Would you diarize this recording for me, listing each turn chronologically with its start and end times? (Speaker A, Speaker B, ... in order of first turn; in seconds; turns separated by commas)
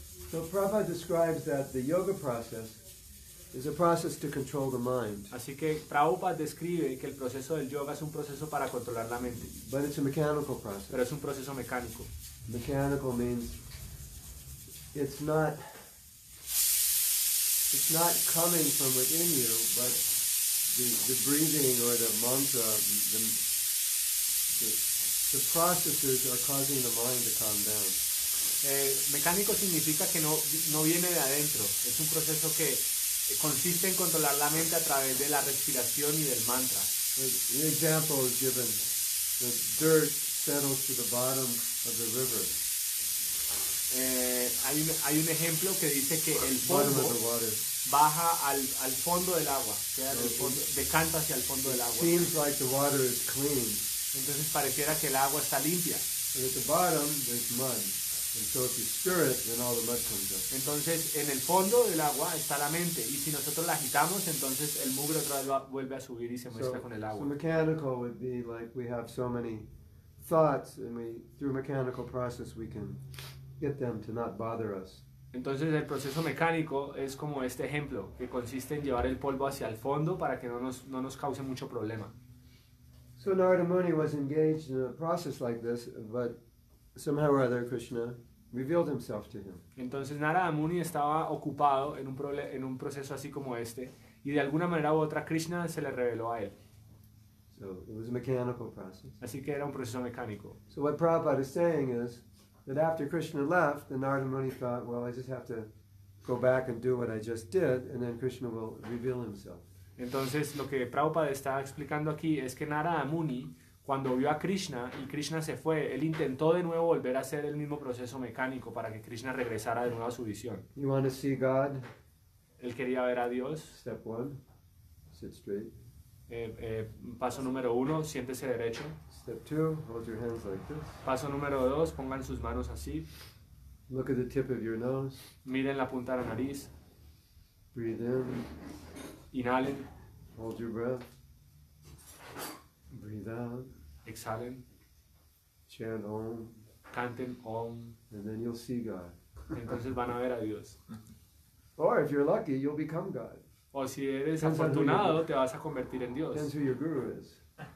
Speaker A: 0.3-2.8, Speaker A: 3.5-5.3, Speaker B: 5.3-9.5, Speaker A: 9.4-11.0, Speaker B: 10.9-12.1, Speaker A: 12.5-13.6, Speaker A: 14.9-15.8, Speaker A: 17.7-20.0, Speaker A: 20.7-23.4, Speaker A: 24.5-28.0, Speaker B: 28.6-37.0, Speaker A: 37.1-38.8, Speaker A: 39.4-42.6, Speaker B: 43.9-47.2, Speaker A: 46.5-47.6, Speaker B: 47.8-52.3, Speaker A: 50.1-50.6, Speaker A: 51.6-53.9, Speaker B: 54.1-56.0, Speaker A: 56.3-60.5, Speaker B: 60.5-67.3, Speaker A: 66.5-73.0, Speaker A: 73.6-75.0, Speaker B: 75.3-82.1, Speaker A: 83.2-86.4, Speaker A: 86.9-89.6, Speaker B: 89.8-96.5, Speaker A: 97.5-99.2, Speaker B: 99.2-100.6, Speaker A: 100.7-105.7, Speaker A: 106.2-109.6, Speaker B: 110.0-120.6, Speaker A: 120.7-121.8, Speaker B: 122.6-123.8, Speaker A: 123.7-124.4, Speaker A: 125.1-125.7, Speaker B: 126.3-129.0, Speaker A: 129.1-131.0, Speaker B: 131.0-133.1, Speaker A: 133.9-135.2, Speaker B: 135.4-136.7, Speaker A: 137.7-138.5, Speaker B: 139.3-139.9, Speaker A: 140.3-141.0, Speaker A: 142.9-143.7, Speaker B: 144.0-144.6, Speaker A: 145.7-146.6, Speaker B: 146.9-147.9, Speaker A: 148.1-149.1, Speaker B: 149.5-150.8, Speaker A: 151.8-153.4, Speaker B: 153.7-156.5, Speaker A: 154.4-155.3, Speaker A: 156.3-157.4